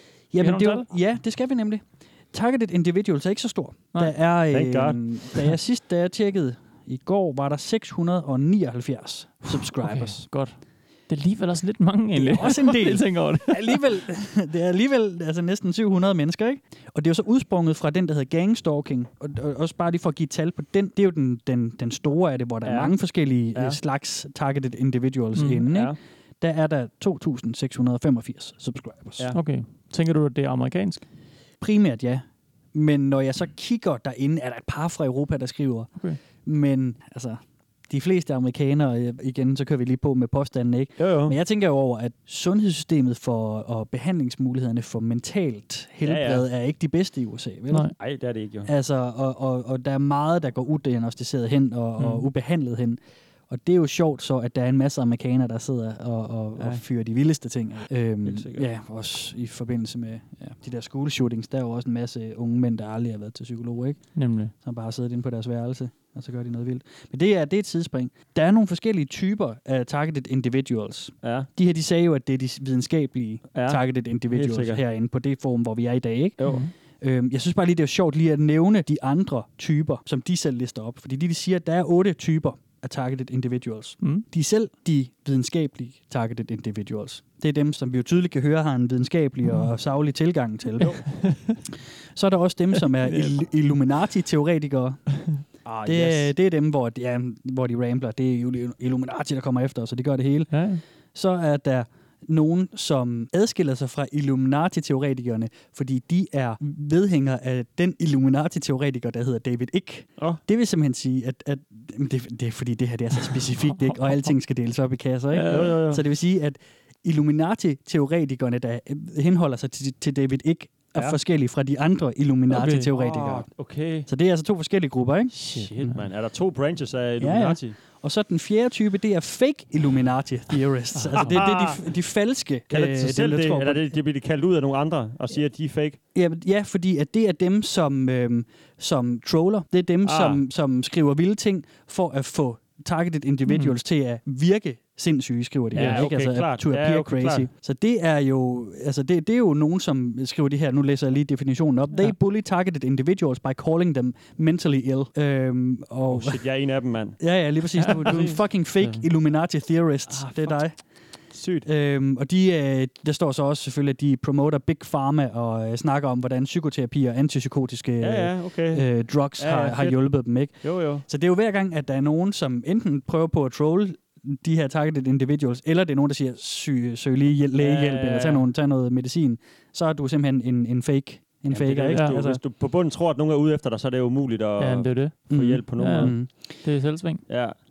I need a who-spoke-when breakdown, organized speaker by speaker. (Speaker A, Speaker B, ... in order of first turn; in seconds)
Speaker A: 0.3-10.3, 12.1-29.3, 31.6-48.1, 48.6-76.4, 77.0-91.1, 92.1-95.2, 95.8-123.5, 124.0-125.7, 127.2-133.8, 136.1-156.4, 157.2-160.8, 161.6-182.4, 185.3-186.4
Speaker B: 0.4-0.9, 9.8-13.8, 25.3-25.7, 29.3-31.0, 52.0-52.2, 64.1-64.5, 76.4-76.7, 91.2-91.6, 93.0-93.4, 100.5-100.8, 115.3-115.8, 122.5-122.9, 125.3-126.0, 130.9-131.4, 143.5-143.7, 145.7-146.1, 157.8-158.4, 181.9-182.2, 184.6-187.2
Speaker C: 4.5-5.2, 22.6-22.9, 23.5-23.8, 41.0-41.4, 46.0-46.5, 48.0-48.7, 58.2-58.6, 71.2-71.5, 73.5-74.8, 95.6-96.3, 115.5-116.0, 122.9-124.1, 125.6-127.8, 131.2-131.8, 132.7-136.0, 140.0-140.4, 145.7-147.5, 156.1-157.2, 160.2-160.6, 161.3-161.7, 168.0-171.0, 177.6-178.4, 181.5-186.2, 187.3-187.6